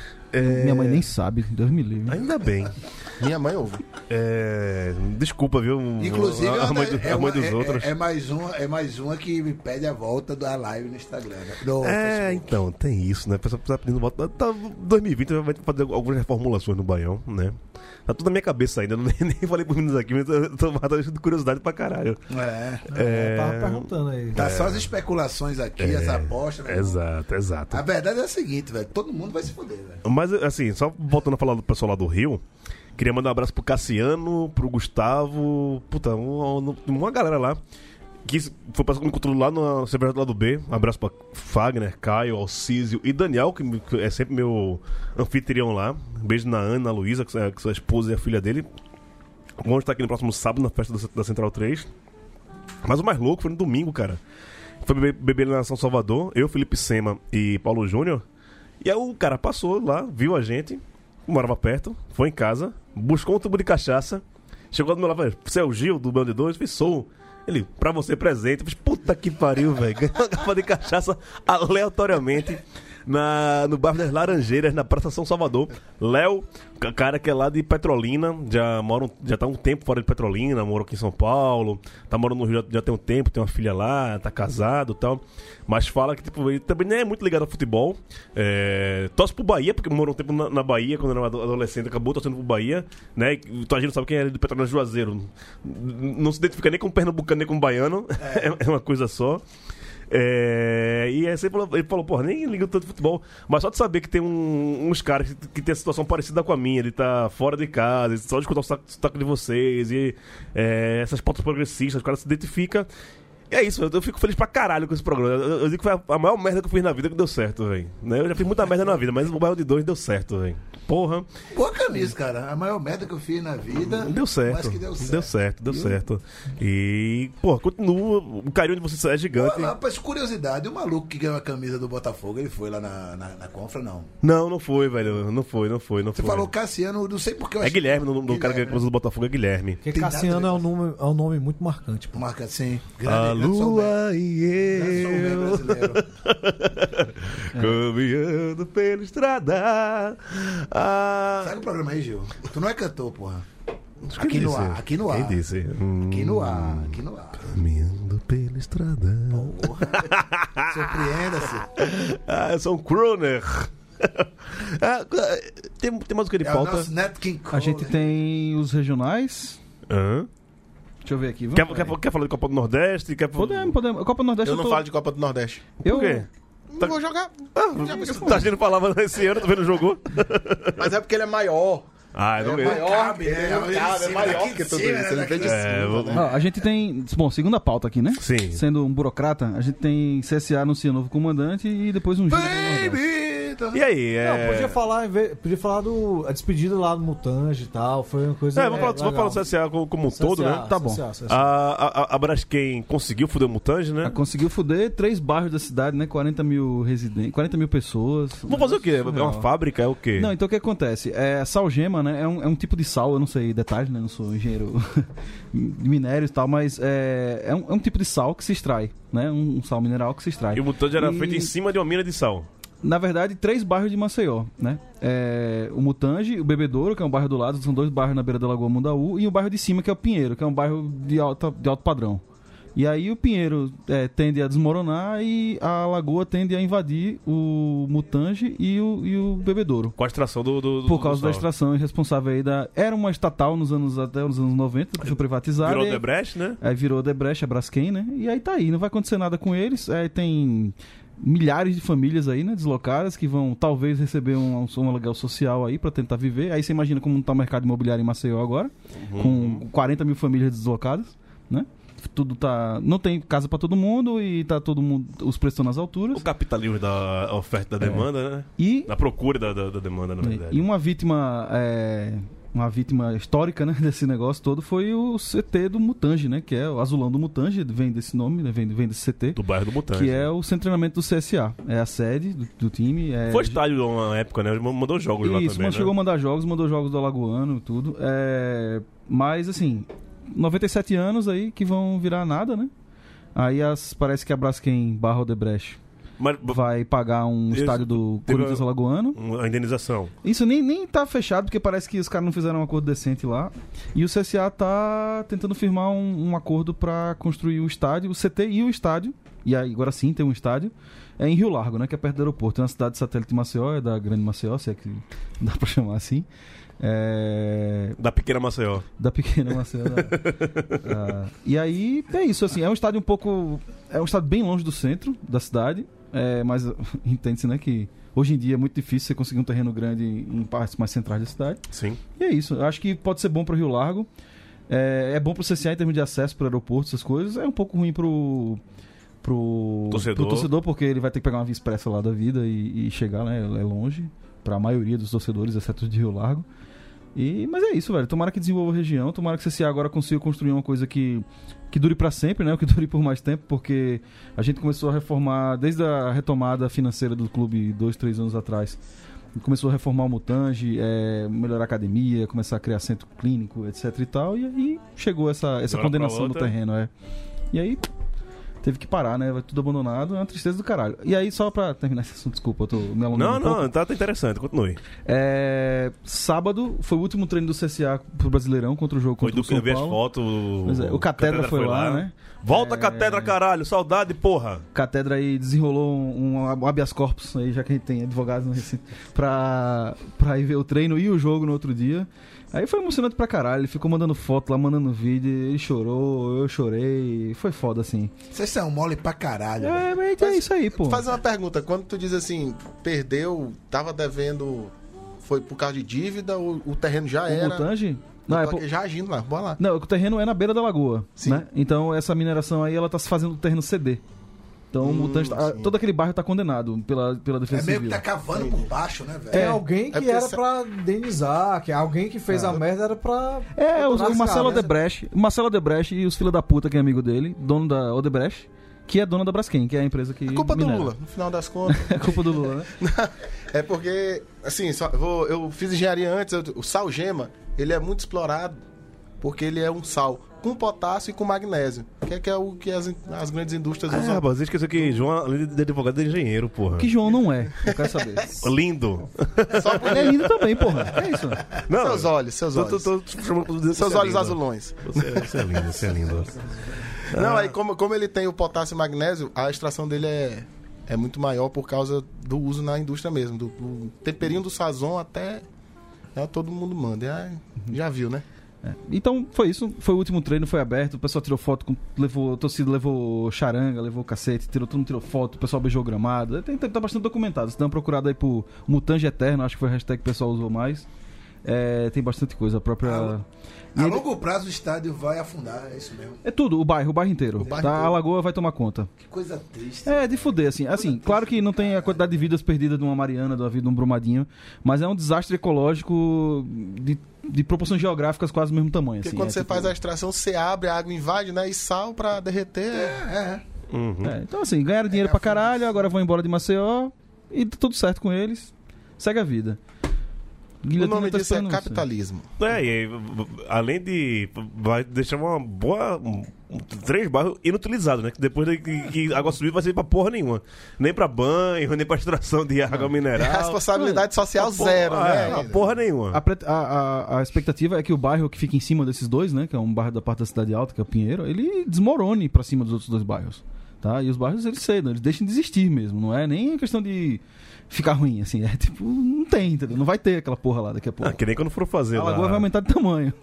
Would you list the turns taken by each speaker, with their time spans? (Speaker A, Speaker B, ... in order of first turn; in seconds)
Speaker A: 0.3-1.1, 2.1-2.8, 4.1-7.9, 11.8-22.2, 22.9-24.9, 25.8-27.8, 30.0-32.4, 33.0-37.6, 38.2-48.7, 49.6-51.9, 52.8-54.2, 54.8-58.2, 58.8-99.4, 100.1-112.9, 113.5-121.3, 123.9-129.7, 134.2-136.5, 137.6-139.8, 143.0-151.6, 154.1-160.9, 161.8-166.9, 169.9-170.3, 171.6-173.8, 175.8-176.3, 177.6-180.9, 182.1-182.9, 185.4-186.3, 188.2-188.6, 193.7-194.8, 198.6-200.7, 201.3-204.2, 208.5-210.3, 220.5-222.5, 240.0-241.5, 245.6-246.6, 259.0-259.6, 266.1-270.6, 279.4-280.3, 283.3-285.9, 296.2-296.6, 297.5-298.6, 299.2-300.1, 318.0-318.9, 319.9-320.8, 331.7-332.0, 339.9-340.5, 365.7-366.5, 373.1-374.8, 379.2-384.6, 443.9-446.9, 448.4-450.9, 451.5-456.3, 457.1-457.6, 503.7-504.1, 512.4-526.2, 541.0-542.5
Speaker B: 0.4-2.2, 167.5-169.6, 171.0-172.0, 173.3-174.9, 175.8-176.3, 178.0-178.4, 186.1-193.0, 200.7-201.0, 204.0-209.5, 210.2-221.5, 222.8-232.2, 232.8-240.0, 240.8-246.0, 246.6-266.2, 267.8-268.1, 268.6-268.9, 270.2-283.6, 285.2-292.7, 293.4-295.8, 296.5-299.2, 300.2-316.3, 316.8-318.0, 319.0-320.2, 320.8-331.6, 332.2-334.1, 334.7-338.6, 339.2-346.5, 347.1-358.8, 359.4-366.9, 367.5-367.9, 368.6-373.7, 375.1-380.0, 380.6-383.4, 384.7-398.1, 399.6-401.1, 407.3-408.7, 409.6-414.0, 414.7-418.1, 419.3-419.6, 422.3-422.6, 423.6-430.9, 431.7-432.7, 446.8-448.5, 449.8-451.6, 468.6-480.9, 481.4-483.2, 483.8-484.0, 486.2-488.9, 489.9-499.7, 504.0-509.6, 510.6-511.9, 523.8-524.0, 526.1-541.2, 541.9-543.1
Speaker C: 3.2-3.8, 174.4-175.7, 176.7-178.5, 180.8-181.9, 182.4-186.3, 400.2-409.6, 411.2-411.5, 414.8-415.8, 418.3-418.7, 419.4-420.4, 430.3-438.6, 439.2-444.3, 444.8-445.1, 447.6-448.1, 449.6-450.4, 451.7-452.9, 453.8-455.8, 457.1-465.4, 466.1-468.2, 499.0-503.0, 510.8-512.3, 522.7-525.8
Speaker D: 6.0-12.6, 22.3-22.9, 24.4-27.0, 27.7-30.0, 98.2-98.5, 121.5-125.3, 129.3-134.1, 136.2-138.8, 139.9-140.6, 142.1-144.0, 144.7-146.1, 151.4-153.5, 154.2-155.4, 156.1-157.5, 159.3-160.1, 160.7-161.7, 166.4-167.9, 182.4-185.9, 192.3-193.8, 398.3-399.9, 417.5-419.4, 482.8-483.1, 483.8-486.2, 487.4-488.0, 489.0-492.3, 502.7-503.4, 504.9-505.8
Speaker E: 22.9-24.4, 139.8-142.2, 194.2-199.4, 200.1-201.5, 419.3-424.7